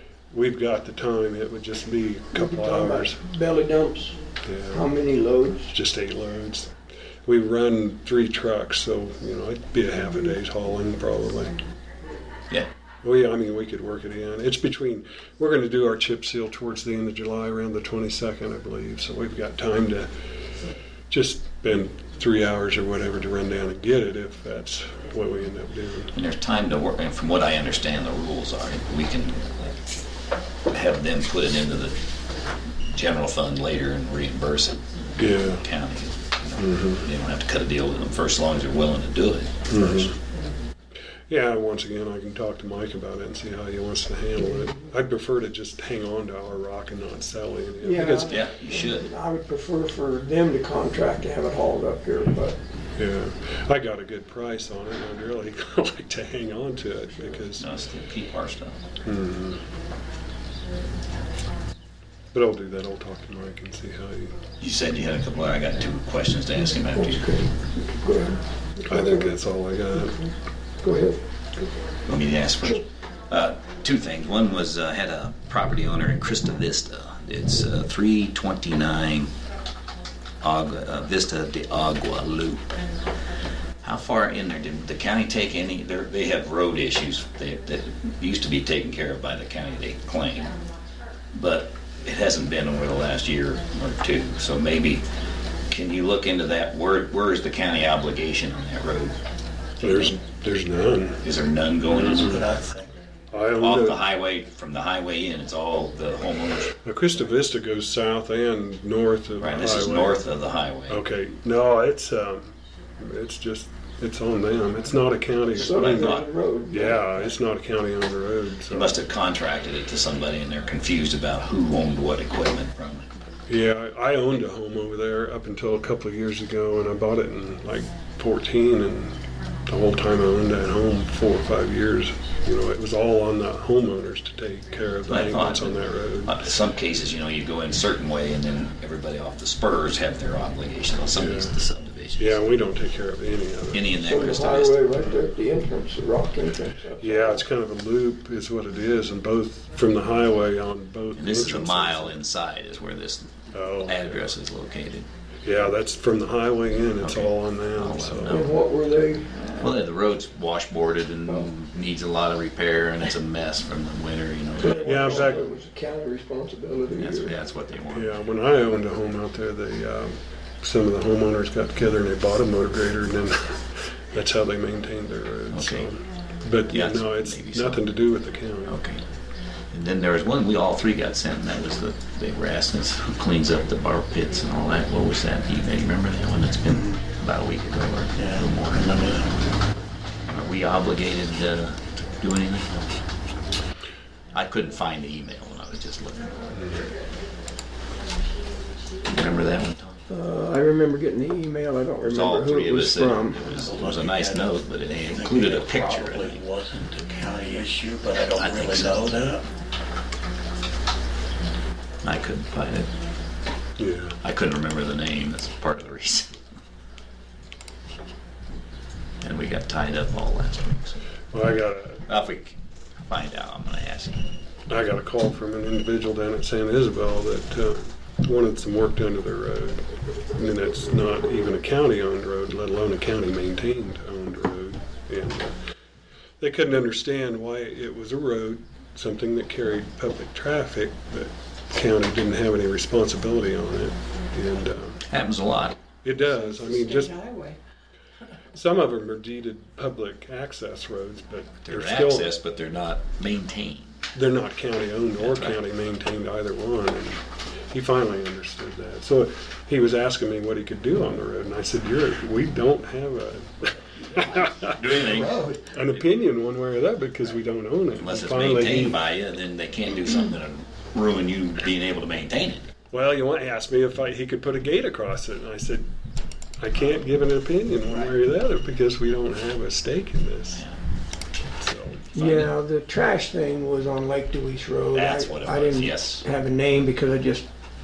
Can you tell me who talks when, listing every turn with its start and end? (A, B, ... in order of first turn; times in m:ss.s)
0:00.3-0:03.2 A
0:02.3-0:04.1 B
0:04.4-0:04.8 A
0:04.7-0:05.7 B
0:05.7-0:06.7 A
0:07.2-0:11.6 A
0:13.0-0:20.1 A
0:21.1-0:26.1 A
0:26.1-0:29.4 C
0:30.7-0:32.0 C
0:32.9-0:34.8 C
0:35.2-0:35.6 A
0:35.5-0:39.5 C
0:36.6-0:37.0 A
0:39.7-0:40.1 A
0:41.3-0:48.4 A
0:47.8-0:52.6 B
0:48.3-0:49.1 C
0:53.0-0:57.7 A
0:57.6-0:58.8 C
0:59.0-0:59.6 A
1:02.3-1:04.4 A
1:04.6-1:07.3 C
1:06.7-1:09.3 B
1:08.9-1:10.2 A
1:09.9-1:11.2 B
1:12.0-1:19.3 C
1:20.4-1:22.6 C
1:23.8-1:30.5 C
1:31.3-1:35.0 C
1:35.7-1:39.2 C
1:39.8-1:40.2 C
1:39.8-1:41.2 A
1:41.2-1:42.6 C
1:41.9-1:42.4 A
1:41.9-1:43.0 D
1:43.3-1:44.0 A
1:43.6-1:46.7 C
1:46.8-1:50.2 A
1:49.4-1:51.0 C
1:50.9-1:59.0 A
1:55.5-1:56.3 C
1:55.6-1:57.3 B
1:58.7-2:03.1 C
2:03.5-2:16.4 A
2:15.1-2:22.4 C
2:21.1-2:21.5 A
2:22.2-2:23.9 A
2:23.7-2:24.8 C
2:23.9-2:27.4 B
2:24.9-2:25.3 A
2:27.0-2:32.2 A
2:31.1-2:35.1 C
2:33.5-2:34.3 A
2:35.4-2:38.3 A
2:37.0-2:38.6 C
2:38.3-2:39.3 B
2:39.6-2:45.4 C
2:44.6-2:47.3 B
2:44.8-2:45.5 A
2:46.9-2:48.2 C
2:47.9-2:53.6 A
2:54.1-2:58.8 A
2:55.5-2:55.9 C
2:56.7-2:57.8 C
2:58.6-2:59.0 C
2:59.7-3:09.0 C
3:08.1-3:09.4 D
3:10.3-3:12.8 C
3:14.3-3:16.6 C
3:16.5-3:16.8 A
3:19.0-3:20.0 C
3:20.1-3:23.4 B
3:22.0-3:26.4 C
3:23.3-3:29.4 D
3:28.3-3:29.2 C
3:32.0-3:32.9 C
3:33.8-3:34.2 A
3:34.2-3:36.3 C
3:39.2-3:41.0 C
3:41.3-3:42.0 A
3:42.1-3:44.2 C
3:44.7-3:55.6 A
3:56.4-4:05.0 A
4:05.1-4:05.8 C
4:06.0-4:07.3 A
4:07.2-4:07.6 B
4:08.5-4:12.3 A
4:11.6-4:14.0 C
4:14.1-4:24.8 A
4:15.2-4:15.6 C
4:24.6-4:25.6 C
4:25.0-4:25.6 B
4:25.7-4:29.0 A
4:28.0-4:32.6 C
4:32.9-4:35.9 A
4:36.6-4:40.6 A
4:40.5-4:40.8 C
4:41.6-4:42.0 A
4:42.1-4:47.5 B
4:42.1-4:42.5 C
4:44.9-4:46.2 C